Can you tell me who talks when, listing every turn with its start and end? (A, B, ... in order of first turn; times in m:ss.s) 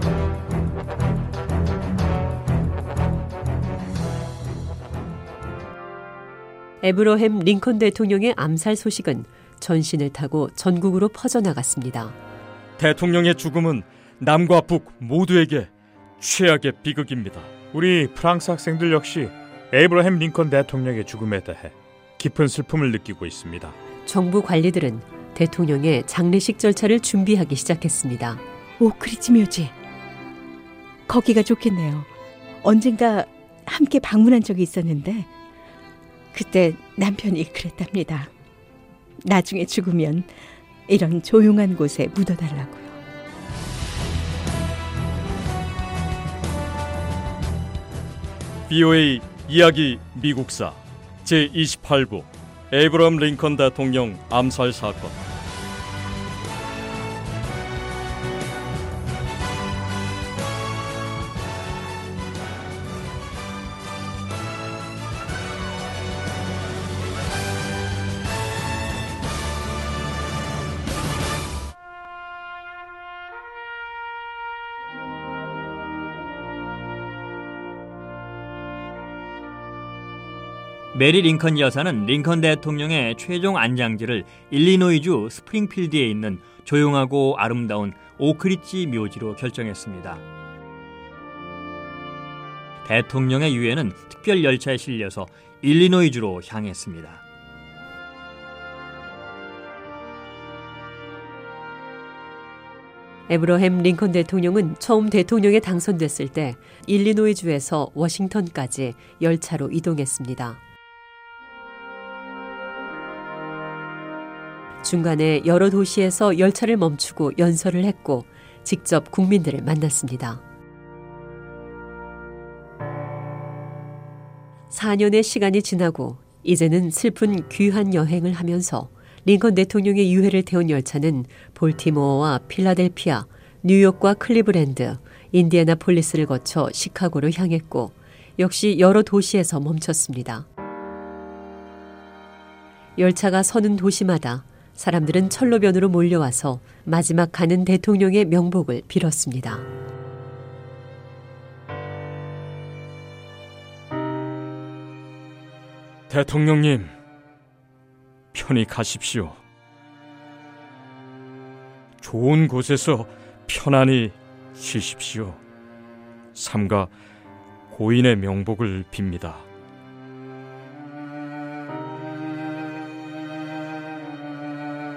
0:06.8-0:12.2 A
0:12.8-0:17.5 B
0:17.7-0:23.7 C
0:24.0-0:28.4 A
0:28.8-0:29.7 D
0:31.1-0:32.1 D
0:32.6-0:35.3 D
0:36.3-0:38.3 D
0:39.2-0:40.3 D
0:40.9-0:43.0 D
0:48.7-0:55.2 B
1:20.9-1:30.2 E
1:32.8-1:37.2 E
1:43.3-1:50.6 A
1:54.8-2:00.4 A
2:04.7-2:20.5 A
2:23.0-2:29.7 A
2:36.1-2:36.9 B
2:38.3-2:39.4 B
2:42.0-2:45.4 B
2:46.3-2:46.9 B
2:47.7-2:49.4 B